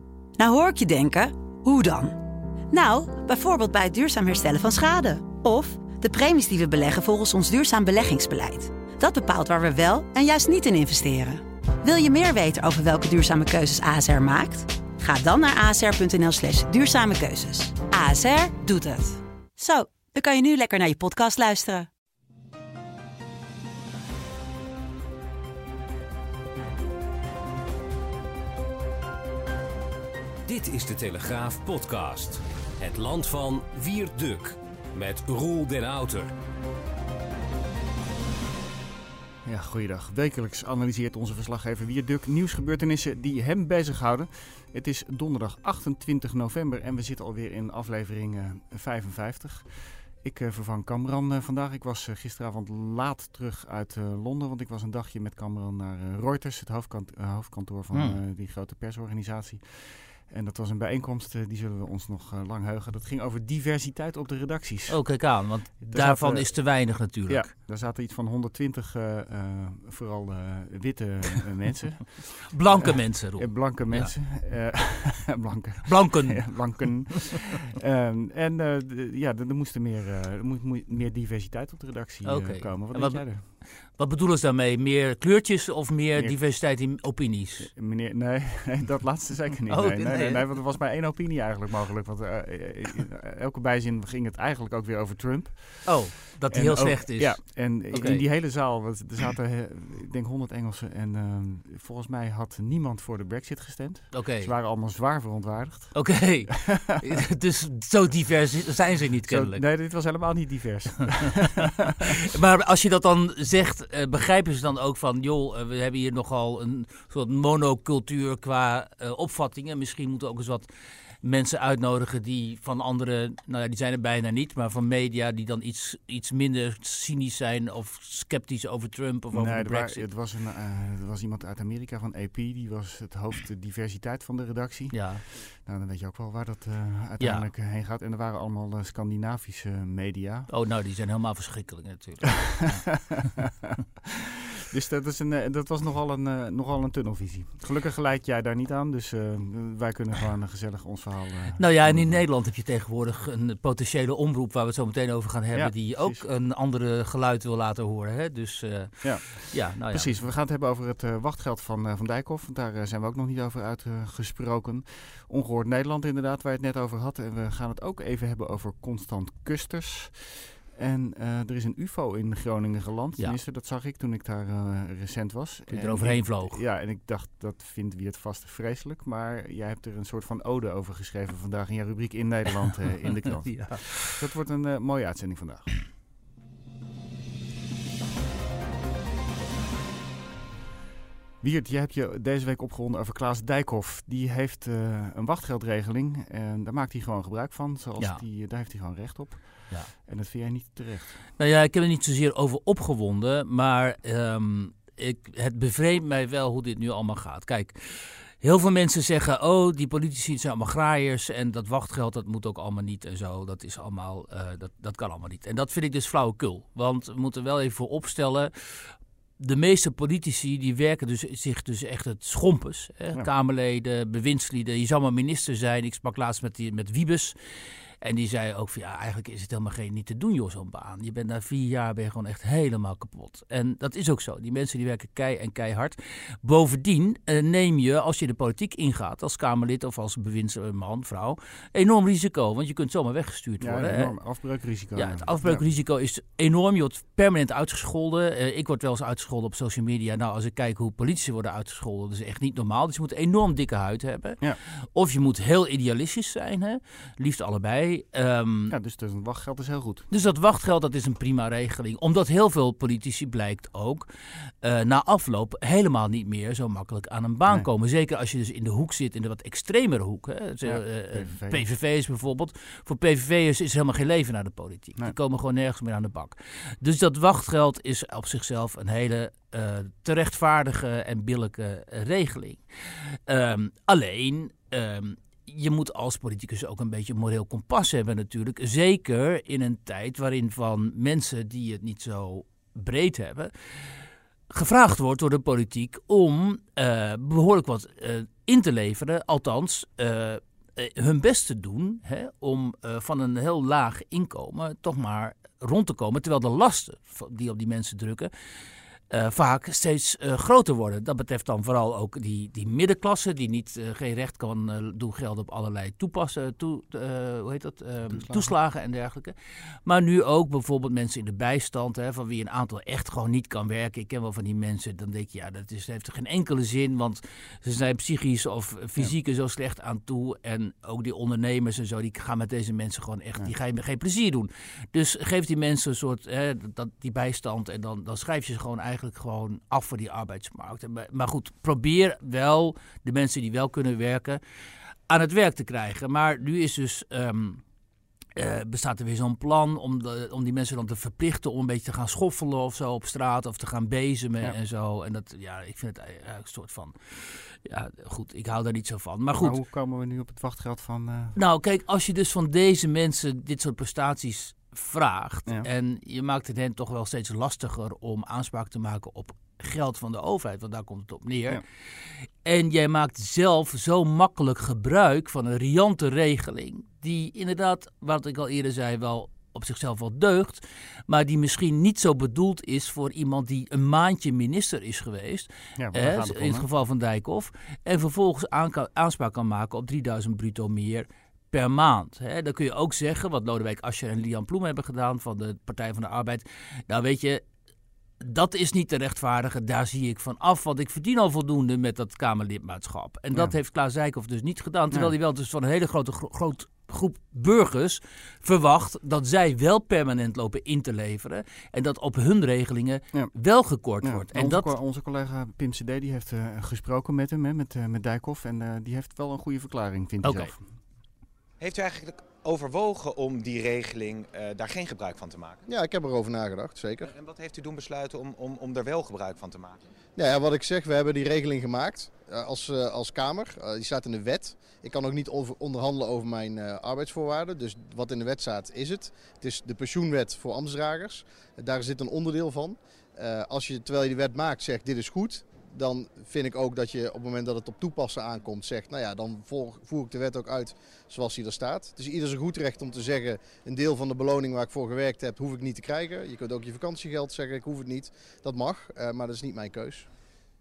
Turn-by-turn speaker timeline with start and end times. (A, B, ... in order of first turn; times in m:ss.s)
0:00.4-0:02.2 A
0:02.7-0:21.9 A
0:30.4-0:36.3 B
0:39.4-1:23.4 C
0:57.9-0:58.2 D
1:04.9-1:07.5 D
1:12.5-1:14.1 D
1:15.8-1:17.0 D
1:22.2-1:27.7 D
1:26.2-1:26.6 C
1:27.6-1:47.0 C
1:29.7-1:30.5 D
1:35.8-1:38.2 D
1:44.1-1:44.5 D
1:45.9-1:49.6 D
1:49.3-1:52.0 C
1:52.2-2:00.7 D
2:01.2-2:10.0 D
2:09.3-2:20.5 C
2:14.9-2:15.2 D
2:17.2-2:17.5 D
2:20.5-2:23.3 D
2:22.6-2:23.7 C
2:24.7-2:32.2 C
2:31.6-2:40.2 D
2:35.5-2:36.2 C
2:39.0-3:05.7 C
2:55.7-2:56.6 D
3:03.2-3:04.1 D
3:11.4-3:21.2 C
3:21.4-3:47.3 D
3:48.0-4:04.1 D
4:03.6-4:05.6 C
4:04.9-4:18.7 D
4:18.7-4:20.1 C
4:20.1-4:24.1 D
4:24.6-4:42.6 D
4:30.6-4:31.7 C
4:43.2-4:53.5 D
4:54.5-5:08.3 D
5:09.1-5:19.3 D
5:18.1-5:18.5 C
5:19.8-5:44.4 D
5:45.1-5:47.6 D
5:48.4-5:59.6 D
5:59.4-6:01.4 C
6:01.3-6:11.6 D
6:12.4-6:37.4 D
6:25.8-6:26.7 C
6:38.2-6:54.7 D
6:54.0-7:00.6 C
7:00.2-7:00.5 D
7:01.6-7:05.6 E
7:05.7-7:07.1 F
7:07.0-7:09.8 E
7:10.2-7:40.1 F